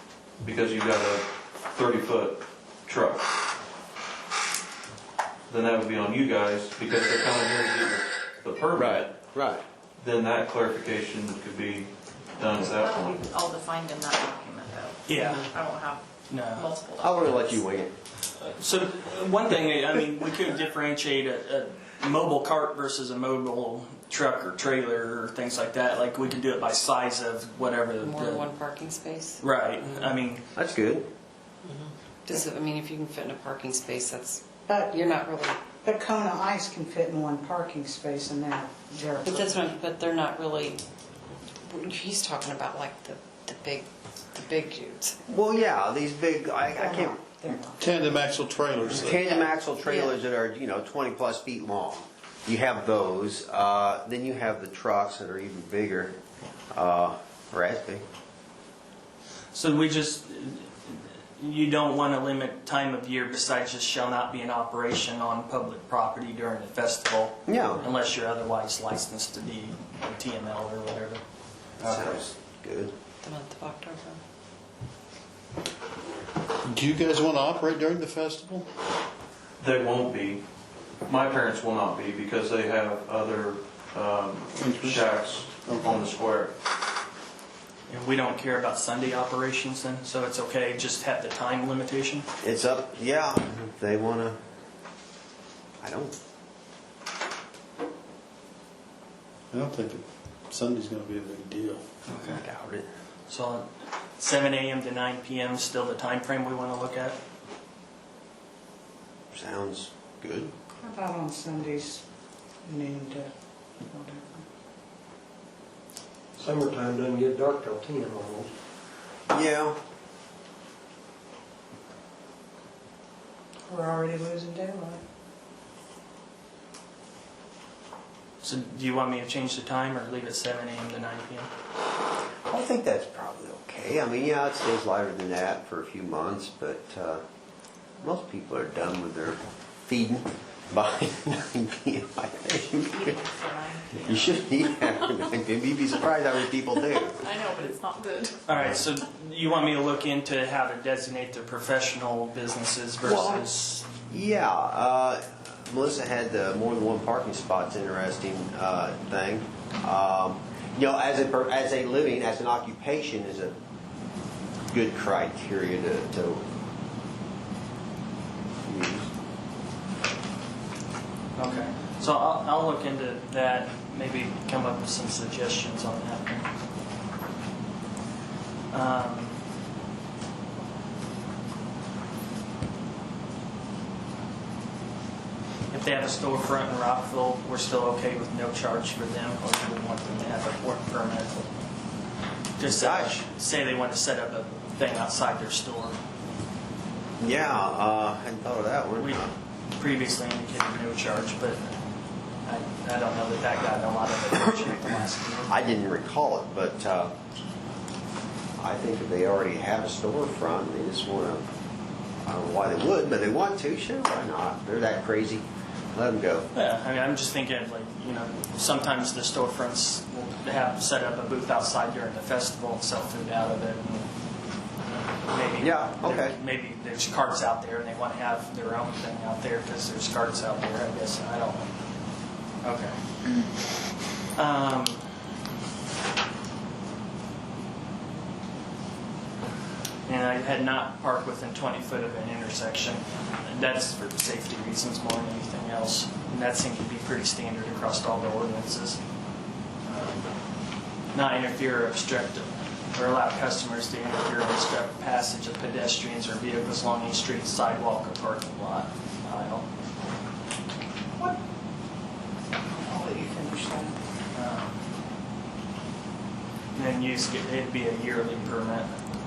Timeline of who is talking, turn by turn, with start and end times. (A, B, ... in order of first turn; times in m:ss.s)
0:00.4-0:03.3 A
0:05.5-0:09.1 A
0:08.7-0:09.6 B
0:10.0-0:12.9 A
0:12.6-0:17.6 C
0:15.1-0:15.5 D
0:16.3-0:16.7 D
0:17.0-0:17.9 B
0:18.4-0:28.4 D
0:28.0-0:29.4 E
0:29.4-0:30.4 D
0:30.5-0:31.1 B
0:31.7-0:35.6 E
0:34.7-0:35.2 F
0:35.8-0:39.8 F
0:39.2-0:40.8 E
0:41.7-0:45.2 E
0:45.3-0:47.2 B
0:46.8-0:48.2 F
0:47.8-0:49.2 G
0:48.9-0:56.1 B
0:49.1-0:49.5 F
0:49.8-0:50.1 E
0:56.7-0:58.0 B
0:59.5-1:11.2 D
1:07.5-1:07.8 B
1:11.8-1:12.2 G
1:11.8-1:12.9 B
1:13.2-1:14.2 E
1:16.6-1:18.7 G
1:19.6-1:20.4 A
1:21.0-1:26.5 A
1:24.5-1:26.0 G
1:25.5-1:25.9 D
1:27.9-1:32.3 D
1:32.4-1:34.4 B
1:35.8-1:36.1 B
1:39.5-1:41.9 G
1:42.1-1:42.9 B
1:42.1-1:42.4 D
1:43.3-1:47.2 D
1:49.3-1:50.5 B
1:50.8-1:52.0 F
1:52.6-1:54.4 F
1:56.4-1:58.5 H
1:59.3-1:59.8 B
2:03.7-2:05.0 F
2:08.4-2:11.5 D
2:12.5-2:17.2 B
2:18.0-2:23.2 B
2:22.6-2:24.9 C
2:23.9-2:27.2 B
2:27.0-2:28.4 C
2:28.5-2:33.8 D
2:33.0-2:33.5 B
2:34.1-2:43.5 B
2:44.7-2:46.4 B
2:48.6-2:49.1 B
2:51.4-2:56.5 D
2:58.7-2:59.4 D
3:05.7-3:11.5 D
3:12.6-3:16.0 D
3:12.6-3:13.2 B
3:17.2-3:19.3 B
3:19.0-3:19.2 D
3:19.8-3:21.8 D
3:22.4-3:25.7 D
3:25.5-3:27.1 B
3:28.6-3:31.4 B
3:32.2-3:36.5 B
3:36.5-3:44.1 D
3:45.1-3:51.7 D
3:45.6-3:46.4 B
3:52.6-3:53.0 D
3:54.3-3:55.0 D
4:00.0-4:09.0 D
4:09.8-4:10.3 D
4:11.1-4:19.7 D
4:22.7-4:24.0 F
4:24.3-4:24.7 D
4:26.7-4:28.9 D